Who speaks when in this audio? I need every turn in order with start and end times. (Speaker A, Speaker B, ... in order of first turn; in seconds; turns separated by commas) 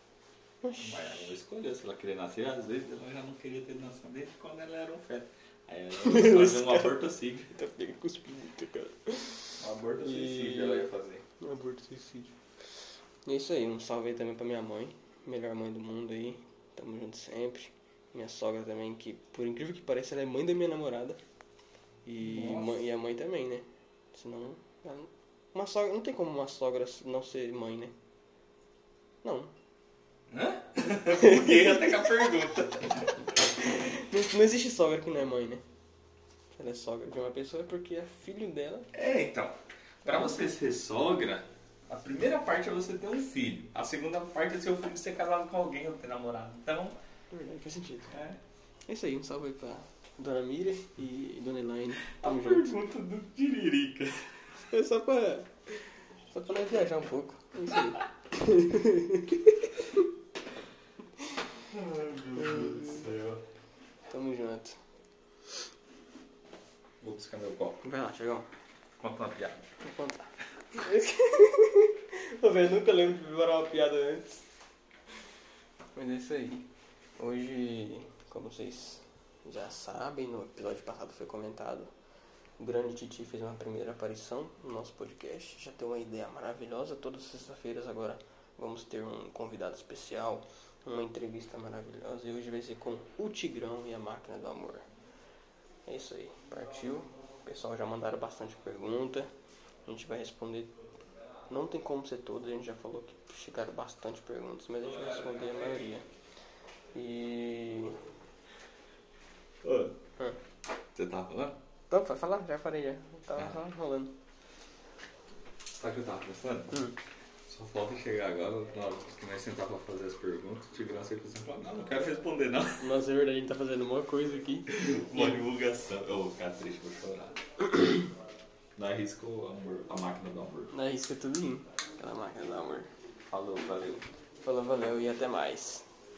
Speaker A: 0.6-1.2, Speaker B: 0.8-7.6, Speaker A: 6.0-10.9, Speaker B: 9.6-11.2, Speaker A: 11.4-12.3, Speaker A: 13.2-21.2, Speaker A: 22.1-27.9, Speaker B: 22.2-22.8, Speaker A: 29.2-29.5, Speaker B: 30.3-33.1, Speaker A: 31.1-32.1, Speaker A: 33.6-35.6, Speaker A: 36.5-38.9, Speaker B: 38.9-47.0, Speaker A: 40.0-40.5, Speaker A: 47.3-48.2, Speaker B: 48.1-48.4, Speaker A: 48.9-52.8, Speaker B: 52.1-54.3, Speaker A: 54.7-60.0, Speaker B: 61.7-63.4, Speaker A: 64.1-64.8, Speaker B: 67.0-67.8, Speaker A: 67.8-68.5, Speaker B: 69.0-69.7, Speaker A: 69.8-74.4, Speaker A: 75.9-76.7, Speaker A: 77.2-81.9, Speaker A: 82.6-94.8, Speaker A: 95.9-99.3, Speaker A: 99.9-100.7, Speaker A: 101.5-106.0, Speaker B: 104.8-105.8, Speaker A: 106.9-108.0, Speaker B: 109.6-109.9, Speaker B: 111.0-111.6, Speaker A: 111.9-114.1, Speaker B: 115.8-116.9, Speaker B: 117.5-123.0, Speaker A: 122.8-125.4, Speaker B: 124.7-128.0, Speaker B: 128.8-130.7, Speaker A: 130.7-132.9, Speaker B: 133.3-134.1, Speaker A: 134.4-135.8